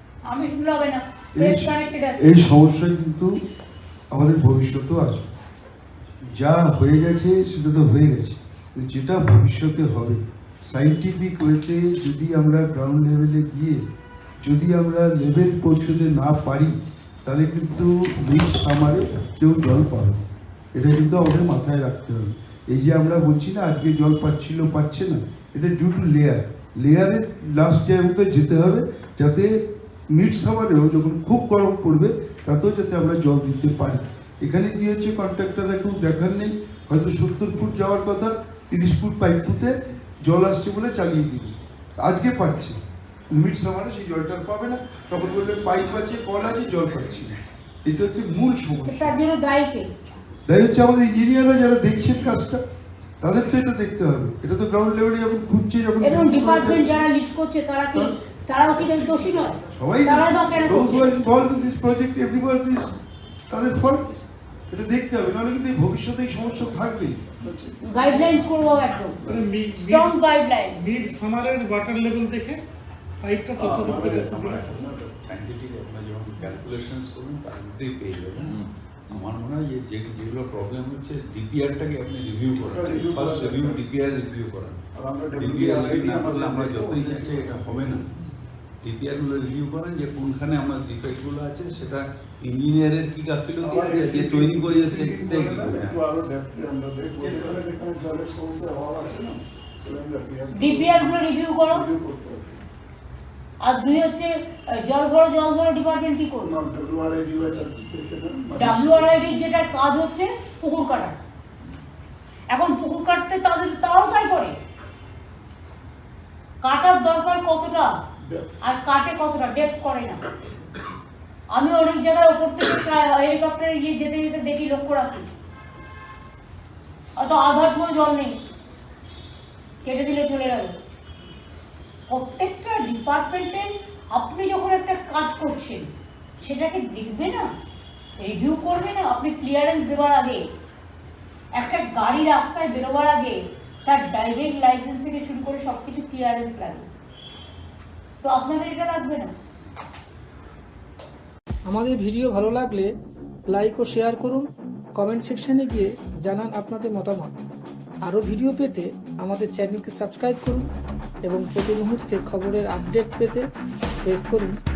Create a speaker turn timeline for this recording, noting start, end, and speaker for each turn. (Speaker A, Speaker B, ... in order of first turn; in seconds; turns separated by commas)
Speaker A: 0.2-2.2, Speaker B: 1.4-3.3, Speaker B: 4.1-5.3, Speaker B: 6.3-13.8, Speaker B: 14.4-16.7, Speaker B: 17.2-20.2, Speaker B: 20.7-29.6, Speaker B: 30.1-42.8, Speaker B: 43.3-49.2, Speaker A: 48.9-49.9, Speaker B: 50.5-52.6, Speaker B: 53.2-57.1, Speaker A: 56.0-61.1, Speaker B: 59.8-63.0, Speaker B: 63.5-64.1, Speaker B: 64.7-67.2, Speaker C: 67.4-68.5, Speaker A: 67.9-69.2, Speaker D: 69.3-70.2, Speaker A: 69.7-70.8, Speaker D: 70.8-72.6, Speaker D: 73.2-74.6, Speaker C: 73.6-74.7, Speaker E: 74.0-84.8, Speaker C: 82.6-83.9, Speaker C: 85.0-88.0, Speaker E: 85.4-88.2, Speaker E: 88.8-96.0, Speaker C: 93.6-102.6, Speaker B: 93.7-94.8, Speaker B: 97.2-97.6, Speaker A: 100.5-101.8, Speaker A: 103.6-106.5, Speaker C: 106.4-109.2, Speaker A: 108.6-111.2, Speaker A: 112.5-114.5, Speaker A: 116.6-117.9, Speaker C: 118.2-118.5, Speaker A: 118.6-120.2, Speaker A: 121.5-125.3, Speaker A: 127.2-128.4, Speaker A: 129.8-130.8, Speaker A: 132.1-135.9, Speaker A: 136.4-137.5, Speaker A: 138.2-140.4, Speaker A: 141.6-146.9, Speaker A: 148.2-149.3, Speaker F: 151.7-152.9, Speaker F: 153.5-157.4, Speaker F: 158.1-160.7, Speaker F: 161.3-163.4, Speaker F: 164.0-164.6